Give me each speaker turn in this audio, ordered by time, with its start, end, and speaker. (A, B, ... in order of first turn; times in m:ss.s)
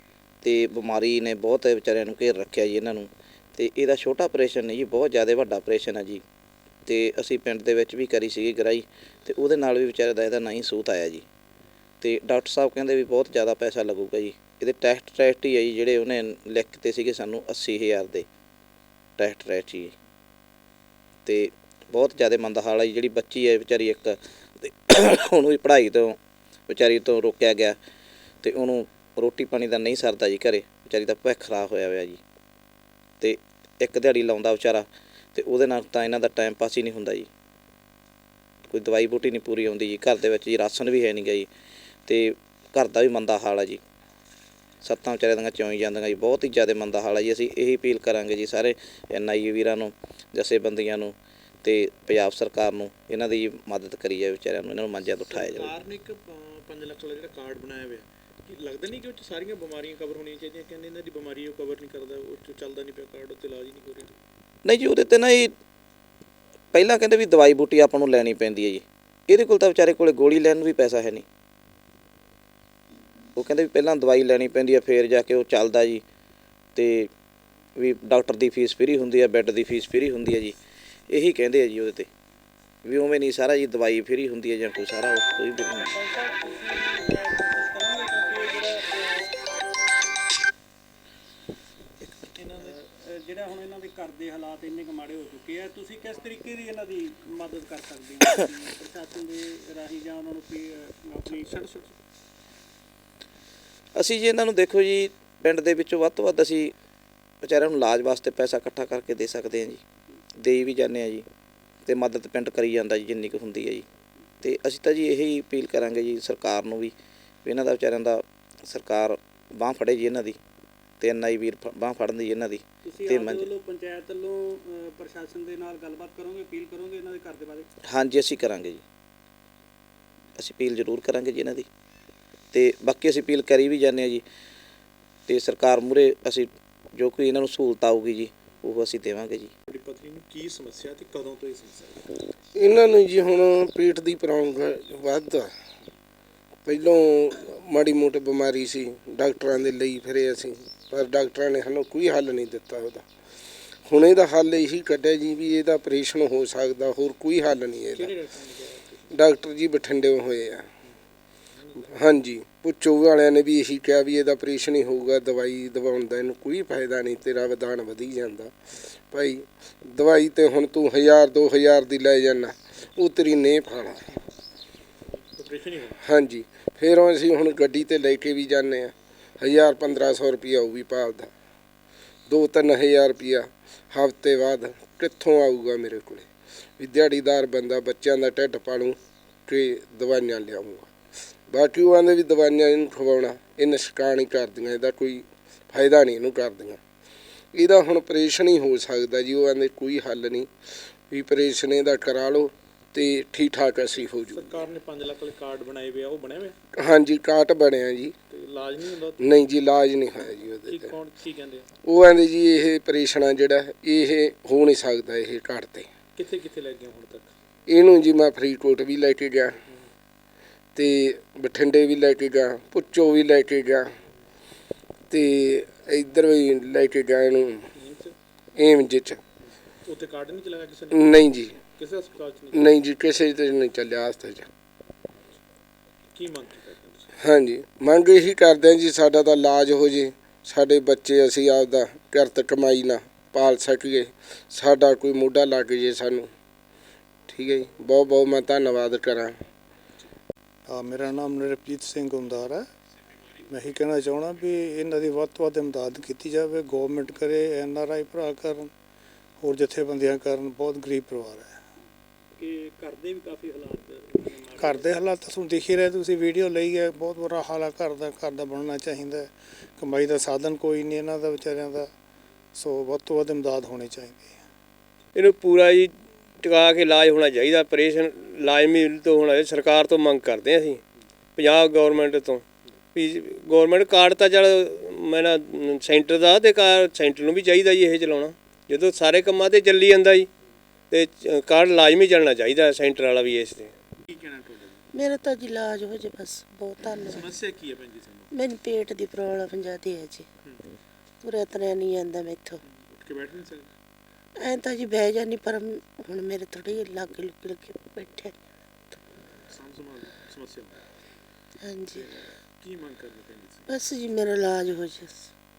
0:00.4-0:06.2 A
0:06.8-0:11.2 A
0:12.0-0:18.2 A
0:19.2-0:19.9 A
0:21.2-0:26.2 A
0:26.7-0:27.8 A
0:28.4-0:32.2 A
0:33.2-0:37.3 A
0:38.7-0:41.5 A
0:42.1-0:43.8 A
0:44.8-0:55.7 A
0:55.1-1:04.1 B
1:04.6-1:05.5 A
1:06.7-1:11.2 A
1:13.4-1:16.0 A
1:16.8-1:17.1 A
1:17.8-1:20.5 A
1:21.1-1:22.1 A
1:22.8-1:25.9 A
1:25.5-1:29.3 C
1:32.3-1:32.8 B
1:32.5-1:41.7 C
1:41.3-1:41.9 B
1:43.9-1:46.7 A
1:47.4-1:49.8 A
1:50.4-1:51.2 A
1:51.8-1:53.8 A
1:54.4-1:56.9 A
1:57.4-2:00.4 A
2:01.0-2:03.5 A
2:02.8-2:07.7 C
2:07.9-2:08.8 A
2:10.4-2:11.7 A
2:12.5-2:14.2 A
2:15.3-2:19.5 A
2:19.7-2:22.1 B
2:22.5-2:25.5 D
2:26.6-2:33.0 D
2:33.8-2:38.1 D
2:37.9-2:39.0 B
2:39.1-2:40.7 D
2:41.5-2:42.0 B
2:41.9-2:48.5 D
2:49.1-2:54.1 D
2:55.4-2:56.0 B
2:56.0-3:01.3 D
3:02.3-3:06.2 D
3:06.8-3:09.0 D
3:09.5-3:10.9 D
3:11.5-3:16.8 D
3:17.5-3:20.5 D
3:21.1-3:24.6 D
3:24.1-3:26.5 B
3:26.8-3:28.1 D
3:28.3-3:29.4 B
3:29.2-3:30.9 D
3:30.6-3:31.6 B
3:31.8-3:35.9 D
3:36.1-3:37.3 B
3:37.7-3:39.6 D
3:40.8-3:43.9 D
3:45.1-3:47.7 D
3:47.7-3:48.1 B
3:48.6-3:49.2 D
3:49.4-3:51.2 B
3:50.9-3:51.6 D
3:51.8-3:52.8 B
3:52.5-3:54.5 D
3:56.1-3:57.1 B
3:57.2-4:06.3 D
4:07.3-4:09.3 D
4:10.7-4:12.6 E
4:13.5-4:18.7 E
4:19.4-4:21.5 E
4:22.4-4:24.8 C
4:24.6-4:31.9 E
4:32.5-4:34.4 E
4:35.1-4:40.8 F
4:41.4-4:42.4 F
4:42.9-4:50.3 F
4:50.9-4:53.7 F
4:54.1-4:54.8 B
4:54.9-4:57.3 G
4:57.0-4:58.3 B
4:58.3-5:00.3 G
5:01.2-5:02.6 G
5:02.6-5:03.7 B
5:04.4-5:08.4 G
5:09.5-5:10.8 B
5:11.6-5:12.0 G
5:11.9-5:13.7 B
5:13.7-5:15.3 G